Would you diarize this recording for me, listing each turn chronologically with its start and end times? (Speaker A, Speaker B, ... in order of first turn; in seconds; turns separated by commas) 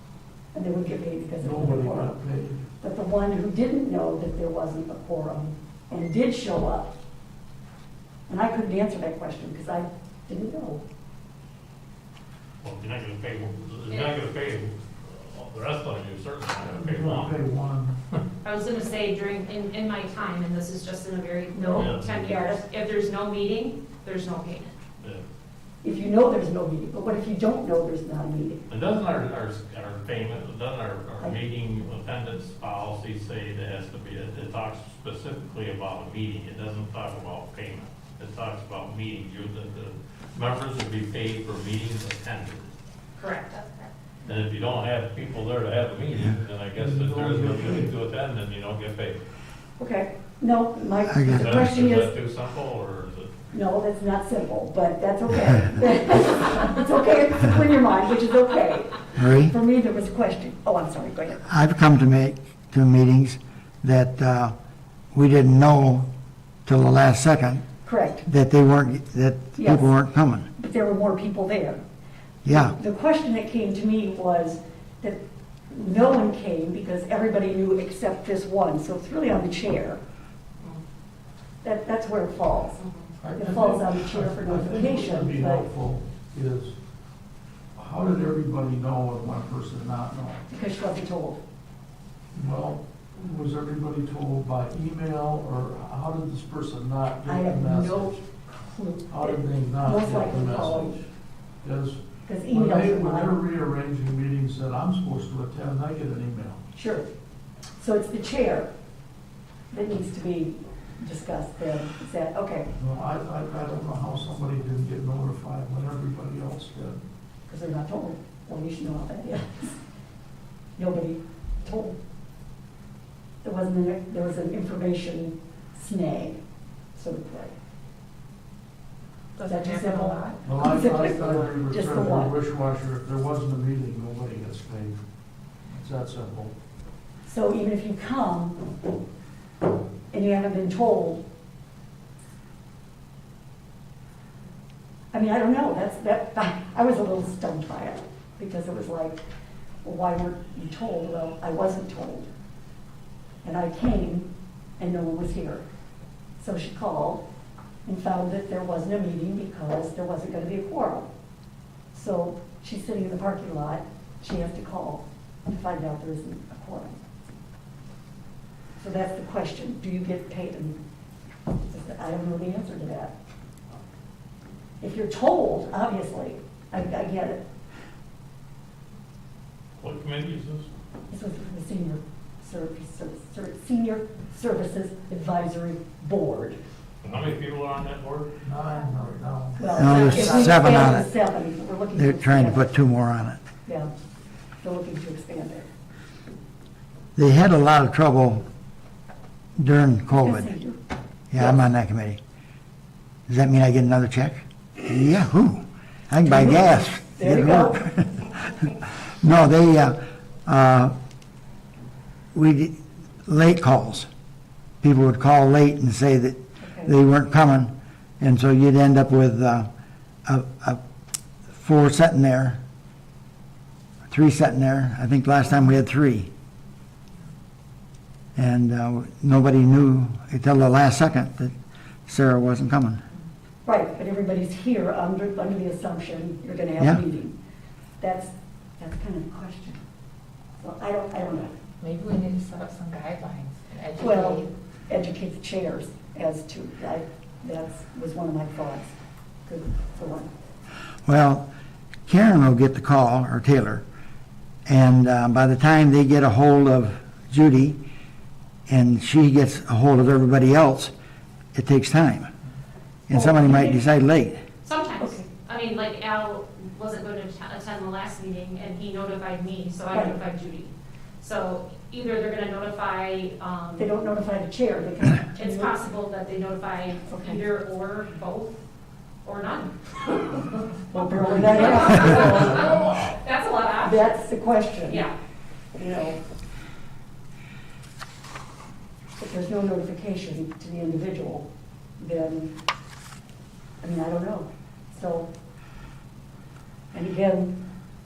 Speaker A: 0.5-2.1, Speaker B: 1.4-2.7, Speaker A: 2.8-6.9, Speaker A: 8.3-10.8, Speaker C: 12.6-17.4, Speaker B: 16.6-18.0, Speaker D: 18.4-24.8, Speaker A: 21.5-22.6, Speaker C: 21.8-22.2, Speaker A: 25.8-28.6, Speaker C: 28.7-42.7, Speaker D: 43.2-43.7, Speaker C: 44.2-49.2, Speaker B: 46.8-47.9, Speaker A: 49.8-52.1, Speaker E: 51.1-51.7, Speaker C: 51.3-53.3, Speaker A: 53.5-61.5, Speaker E: 59.2-59.5, Speaker E: 61.5-64.5, Speaker E: 65.1-66.1, Speaker E: 66.7-67.7, Speaker A: 67.8-68.3, Speaker E: 68.3-70.5, Speaker A: 69.6-69.9, Speaker A: 70.6-71.8, Speaker E: 72.5-72.8, Speaker A: 72.5-75.2, Speaker A: 75.7-80.0, Speaker A: 81.6-82.8, Speaker D: 82.8-83.2, Speaker B: 83.2-86.8, Speaker A: 83.4-85.7, Speaker B: 87.8-90.4, Speaker A: 90.5-91.4, Speaker B: 92.3-98.2, Speaker A: 97.3-101.0, Speaker B: 99.1-101.1, Speaker B: 101.6-106.6, Speaker A: 102.3-103.4, Speaker A: 106.8-107.1, Speaker A: 107.8-108.7, Speaker A: 109.7-112.7, Speaker B: 112.8-117.0, Speaker A: 117.5-119.8, Speaker A: 120.8-122.0, Speaker A: 123.4-126.4, Speaker A: 127.0-127.5, Speaker F: 129.4-130.4, Speaker A: 129.4-132.3, Speaker B: 130.4-135.0, Speaker B: 135.7-136.5, Speaker A: 137.3-138.7, Speaker A: 140.1-141.2, Speaker A: 145.1-149.2, Speaker A: 149.8-152.3, Speaker A: 153.4-155.7, Speaker A: 156.4-157.2, Speaker A: 157.8-161.1, Speaker A: 161.9-167.0, Speaker A: 168.8-170.8, Speaker A: 171.7-173.1, Speaker A: 174.8-177.4, Speaker C: 179.8-180.7, Speaker A: 181.1-186.6, Speaker C: 187.1-188.4, Speaker B: 188.4-189.9, Speaker A: 189.6-192.7, Speaker E: 189.7-191.1, Speaker F: 189.9-190.8, Speaker E: 192.0-193.4, Speaker A: 194.6-195.7, Speaker E: 197.2-198.4, Speaker E: 199.6-200.5, Speaker A: 200.2-200.8, Speaker E: 201.3-202.2, Speaker E: 203.3-210.9, Speaker A: 206.2-207.9, Speaker E: 212.3-214.1, Speaker E: 214.8-219.7, Speaker A: 216.6-216.9, Speaker E: 220.3-220.8, Speaker E: 221.5-222.6, Speaker E: 224.1-226.3, Speaker E: 228.4-231.5, Speaker E: 232.1-233.0, Speaker A: 233.7-237.3, Speaker A: 238.0-239.8, Speaker A: 240.6-241.6, Speaker F: 241.8-244.5, Speaker A: 244.0-248.9, Speaker A: 249.5-250.3, Speaker E: 251.1-251.5, Speaker E: 252.1-253.8, Speaker E: 254.7-257.8, Speaker E: 258.7-260.9, Speaker E: 261.5-262.3, Speaker E: 263.1-264.4, Speaker A: 263.1-263.8, Speaker D: 264.6-273.9, Speaker A: 269.9-270.2, Speaker A: 273.8-275.8, Speaker D: 275.4-278.6, Speaker A: 277.1-277.4, Speaker D: 279.2-284.2, Speaker A: 280.9-283.0, Speaker A: 283.8-285.1, Speaker D: 284.9-285.1, Speaker A: 285.8-286.2, Speaker A: 289.2-291.5, Speaker A: 292.0-292.5, Speaker A: 293.8-295.3, Speaker A: 296.9-297.6